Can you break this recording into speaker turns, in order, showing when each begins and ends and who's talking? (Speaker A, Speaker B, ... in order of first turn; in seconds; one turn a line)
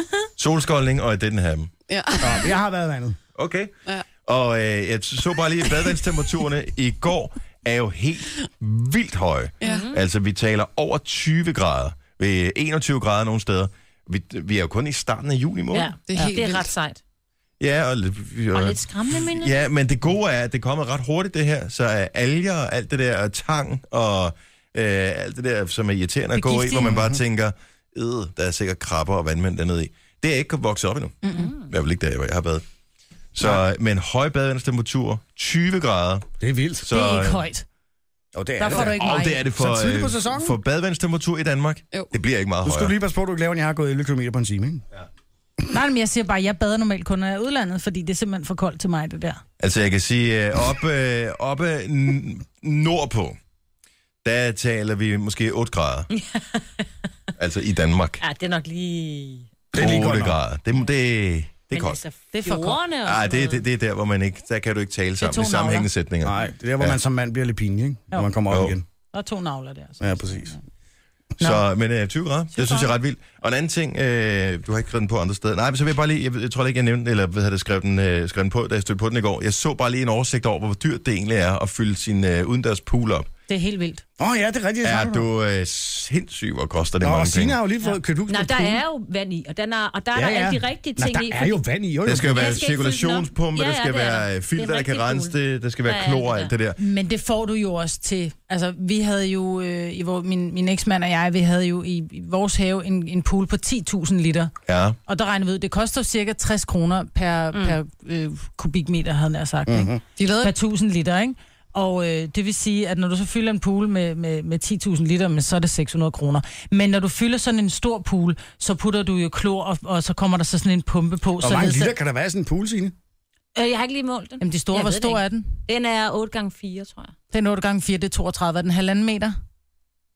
Speaker A: 0.4-1.7
Speaker B: 1.9-2.5
Speaker C: 2.2-3.2
Speaker A: 3.4-3.7
Speaker A: 4.2-15.9
Speaker B: 9.6-9.9
Speaker D: 9.6-10.0
Speaker D: 15.7-17.0
Speaker B: 16.1-16.7
Speaker A: 17.6-32.6
Speaker D: 18.5-19.5
Speaker E: 26.4-26.9
Speaker C: 26.8-27.2
Speaker E: 31.2-31.5
Speaker D: 31.4-31.7
Speaker A: 33.3-36.3
Speaker C: 36.4-36.9
Speaker A: 36.8-37.4
Speaker E: 36.9-37.6
Speaker C: 38.3-40.6
Speaker E: 38.6-39.4
Speaker A: 38.7-42.9
Speaker C: 42.6-44.8
Speaker E: 45.7-49.4
Speaker A: 49.6-53.4
Speaker A: 54.2-56.1
Speaker D: 56.1-56.9
Speaker A: 57.4-58.2
Speaker D: 58.2-59.5
Speaker C: 59.7-60.4
Speaker A: 59.8-62.0
Speaker D: 61.7-63.6
Speaker E: 62.3-62.8
Speaker A: 63.0-67.0
Speaker E: 65.2-65.9
Speaker C: 66.2-68.8
Speaker A: 68.5-68.8
Speaker E: 69.1-70.6
Speaker C: 70.0-70.5
Speaker A: 71.4-83.3
Speaker E: 72.5-72.9
Speaker E: 83.5-84.0
Speaker C: 84.2-85.3
Speaker A: 84.8-87.6
Speaker C: 87.0-88.8
Speaker D: 88.3-91.6
Speaker C: 90.1-92.6
Speaker A: 92.1-96.8
Speaker D: 92.1-96.5
Speaker E: 96.8-104.5
Speaker A: 104.7-105.0
Speaker E: 105.1-121.9
Speaker D: 107.5-107.8
Speaker C: 109.7-110.0
Speaker B: 110.2-110.5
Speaker C: 121.4-122.9
Speaker D: 123.5-127.1
Speaker E: 124.4-125.5
Speaker E: 127.3-129.3